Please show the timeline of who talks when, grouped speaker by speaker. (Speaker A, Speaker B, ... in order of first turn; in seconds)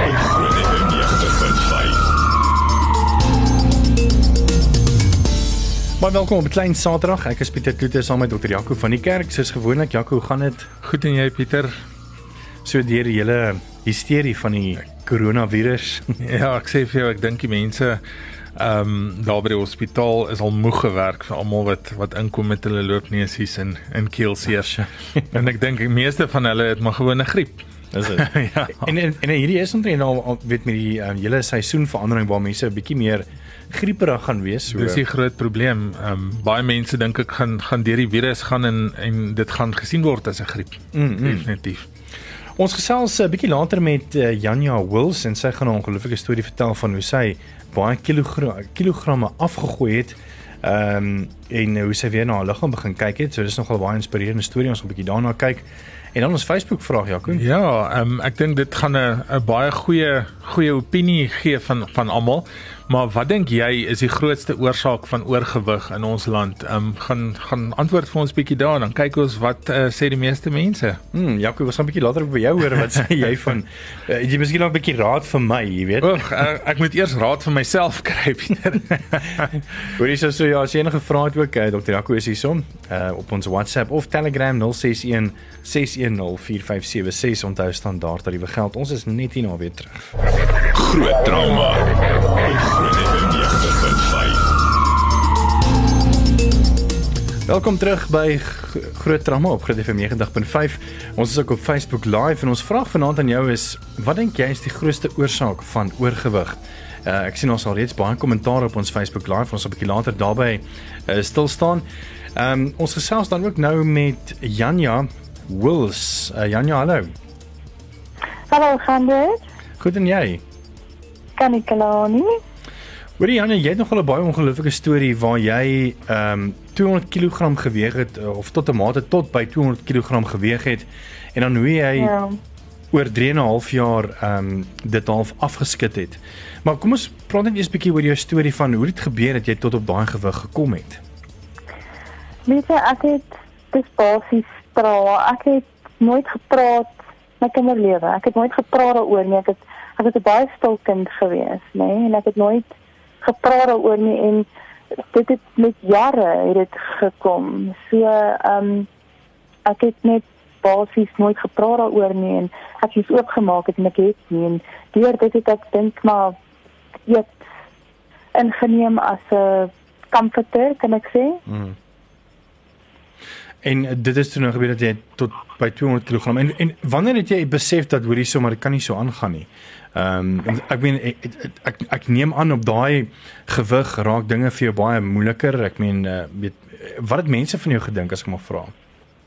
Speaker A: 0.2-1.9, 90.8-91.8, 92.6-94.3
Speaker B: 6.0-10.7, 12.6-16.2, 27.9-35.0, 40.9-41.5, 42.6-57.4, 71.1-76.2, 79.9-90.1, 97.5-117.1, 119.8-120.4, 123.2-132.1, 132.9-141.0, 171.5-171.8, 173.6-188.7
Speaker C: 10.8-11.8, 16.2-18.0, 18.6-28.9, 34.7-41.9, 57.3-71.0, 76.0-79.6
Speaker D: 118.5-119.4, 121.4-122.4, 132.0-132.4, 142.5-152.7, 153.2-154.5, 155.1-158.9, 159.7-166.3, 167.1-167.4, 168.3-171.4